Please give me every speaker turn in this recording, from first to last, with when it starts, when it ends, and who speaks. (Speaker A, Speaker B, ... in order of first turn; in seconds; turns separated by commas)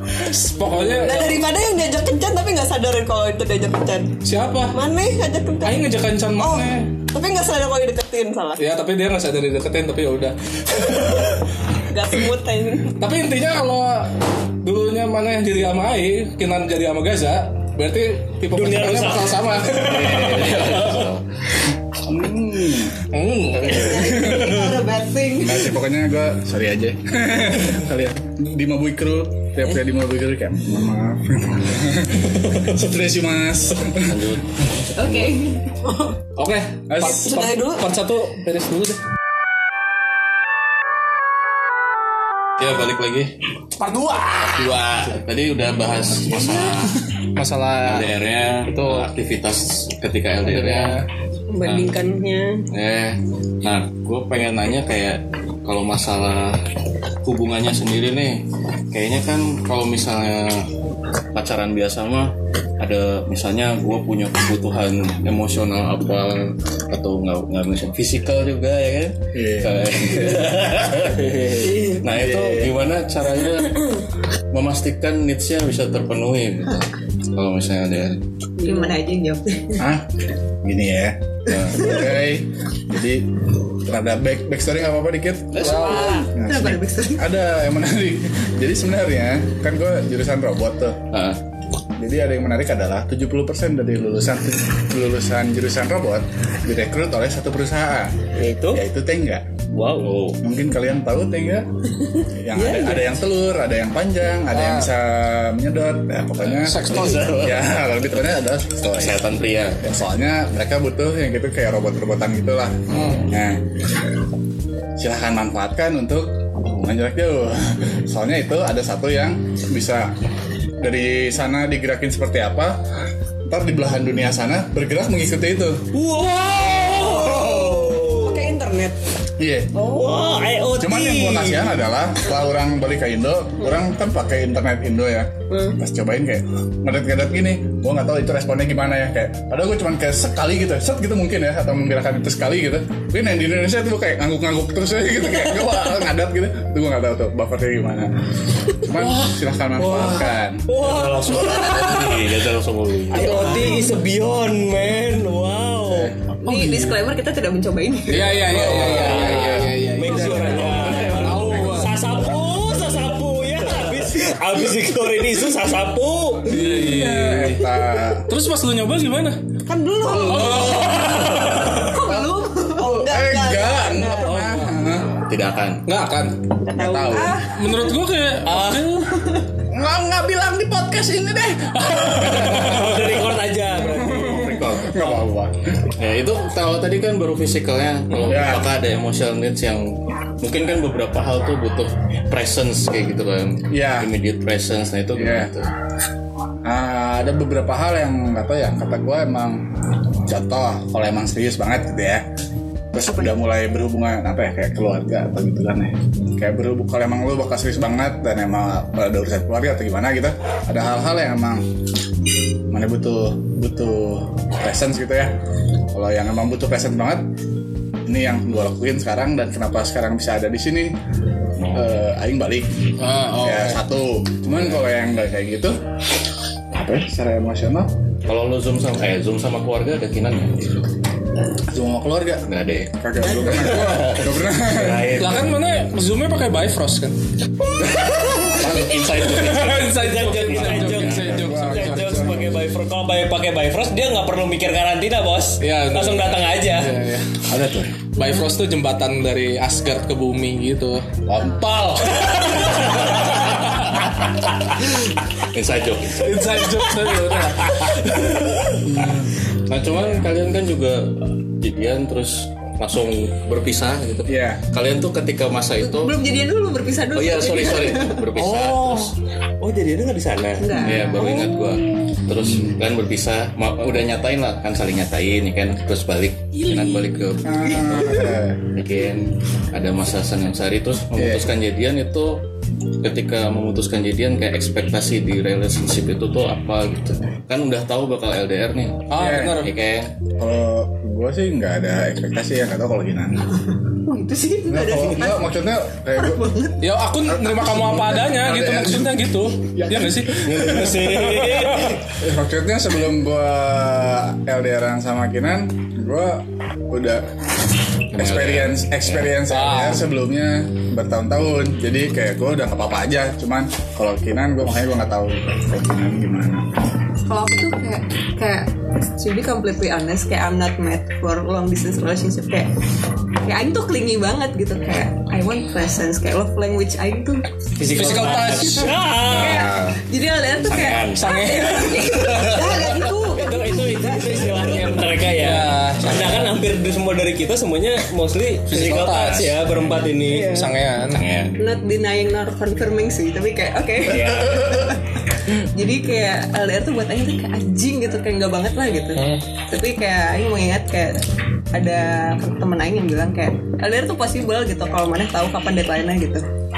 Speaker A: 0.1-1.4, Speaker B: 0.7-4.2, Speaker A: 4.2-4.8, Speaker B: 4.7-8.6, Speaker A: 5.6-6.9, Speaker A: 8.6-11.4, Speaker B: 11.9-13.0, Speaker A: 13.0-21.1, Speaker C: 18.6-19.7, Speaker D: 19.6-21.2, Speaker E: 22.0-23.0, Speaker A: 23.1-24.8, Speaker B: 23.6-25.7, Speaker E: 25.4-34.2, Speaker D: 34.0-35.4, Speaker F: 35.0-35.9, Speaker A: 36.4-39.0, Speaker E: 36.9-37.2, Speaker B: 37.0-37.9, Speaker D: 42.6-43.3, Speaker A: 43.8-44.8, Speaker D: 44.4-47.0, Speaker A: 47.4-48.1, Speaker D: 47.8-51.0, Speaker A: 48.7-49.1, Speaker A: 50.4-51.0, Speaker B: 51.5-52.6, Speaker D: 51.6-52.0, Speaker D: 52.7-56.6, Speaker D: 57.2-60.7, Speaker D: 61.3-73.9, Speaker E: 69.3-69.9, Speaker C: 71.2-71.7, Speaker B: 71.6-72.0, Speaker D: 74.5-78.2, Speaker B: 78.6-79.0, Speaker F: 78.6-79.8, Speaker E: 79.8-83.3, Speaker D: 81.5-81.9, Speaker E: 83.8-91.0, Speaker D: 85.6-86.2, Speaker A: 85.6-86.1, Speaker F: 85.6-87.3, Speaker C: 85.8-86.2, Speaker D: 91.1-91.4, Speaker E: 92.0-98.2, Speaker C: 98.3-98.8, Speaker E: 98.7-99.4, Speaker C: 99.7-100.1, Speaker D: 100.0-100.4, Speaker E: 100.4-101.7, Speaker E: 102.2-109.2, Speaker A: 104.5-104.9, Speaker A: 106.6-107.4, Speaker C: 106.9-107.6, Speaker D: 108.9-109.8, Speaker E: 109.8-113.6, Speaker A: 112.9-113.3, Speaker E: 115.0-120.1, Speaker E: 120.8-122.8, Speaker E: 123.5-125.8, Speaker C: 125.9-128.5, Speaker B: 126.8-129.0, Speaker E: 129.4-129.8, Speaker B: 129.8-130.1, Speaker C: 129.9-131.8, Speaker E: 130.8-148.1, Speaker B: 135.5-135.8, Speaker E: 148.7-150.7, Speaker C: 148.9-152.2, Speaker D: 150.8-153.4, Speaker C: 153.1-156.1, Speaker A: 153.3-153.6, Speaker F: 153.3-153.7, Speaker B: 153.3-153.8, Speaker A: 156.4-157.0, Speaker F: 156.4-158.4, Speaker A: 158.1-161.9, Speaker D: 158.4-159.6, Speaker E: 158.5-160.7, Speaker C: 158.5-166.5, Speaker A: 166.5-169.4, Speaker E: 166.5-168.3, Speaker B: 169.7-171.1, Speaker A: 170.2-171.8, Speaker F: 170.3-170.9, Speaker E: 170.5-175.2, Speaker F: 171.8-172.9, Speaker B: 172.8-174.4, Speaker A: 174.2-174.8, Speaker D: 175.2-175.8, Speaker A: 175.9-176.4, Speaker B: 176.6-177.4, Speaker E: 176.7-177.4, Speaker F: 177.1-177.7, Speaker A: 177.4-179.1, Speaker C: 178.4-178.9, Speaker E: 179.7-183.0, Speaker A: 181.8-182.9, Speaker C: 182.4-184.6, Speaker E: 183.8-185.6, Speaker D: 184.3-185.2, Speaker D: 186.0-195.7, Speaker E: 188.3-188.7, Speaker E: 193.7-194.1, Speaker E: 195.1-195.5, Speaker E: 196.6-199.6, Speaker E: 200.3-202.2, Speaker E: 202.9-211.6, Speaker E: 212.7-215.3, Speaker E: 215.9-217.3, Speaker E: 218.1-220.9, Speaker D: 221.6-221.9, Speaker E: 221.7-225.8, Speaker A: 223.0-223.8, Speaker E: 226.7-227.9, Speaker D: 228.3-230.7, Speaker E: 231.7-235.2, Speaker D: 232.4-235.5, Speaker A: 235.2-237.2, Speaker E: 237.8-238.4, Speaker D: 237.9-241.3, Speaker A: 239.2-242.4, Speaker C: 239.8-246.9, Speaker E: 241.0-242.6, Speaker A: 245.6-247.5, Speaker E: 247.5-248.0, Speaker A: 248.1-252.7, Speaker D: 254.7-255.0, Speaker D: 255.5-256.6, Speaker A: 256.2-257.8, Speaker E: 258.9-259.3, Speaker D: 259.7-266.1, Speaker E: 264.3-264.6, Speaker F: 265.8-268.2, Speaker D: 267.1-269.1, Speaker C: 268.4-270.8, Speaker F: 270.6-271.5, Speaker D: 270.7-278.2, Speaker E: 272.4-272.8, Speaker E: 277.4-278.6, Speaker F: 278.1-278.4, Speaker D: 278.7-282.4, Speaker E: 281.1-281.5, Speaker D: 283.0-290.1, Speaker A: 289.1-289.7, Speaker E: 289.1-289.6, Speaker E: 290.4-293.5, Speaker F: 294.1-295.5, Speaker E: 294.7-296.4, Speaker F: 296.1-296.8, Speaker A: 296.8-302.0, Speaker E: 297.3-300.8, Speaker C: 300.3-302.0, Speaker E: 302.2-307.3, Speaker D: 308.1-309.4, Speaker E: 308.1-316.7, Speaker A: 309.5-310.0, Speaker F: 317.3-322.7, Speaker F: 323.4-333.7, Speaker C: 327.8-329.7, Speaker A: 327.9-329.0, Speaker E: 329.4-329.8, Speaker D: 330.6-331.3, Speaker A: 331.1-332.4, Speaker B: 332.4-335.0, Speaker C: 333.3-340.6, Speaker A: 335.3-336.6, Speaker A: 338.7-339.5, Speaker D: 338.9-339.6, Speaker B: 340.3-340.7, Speaker A: 340.3-341.2, Speaker D: 341.1-341.6, Speaker F: 341.6-351.2, Speaker C: 344.0-344.7, Speaker A: 349.2-349.4, Speaker F: 351.7-356.4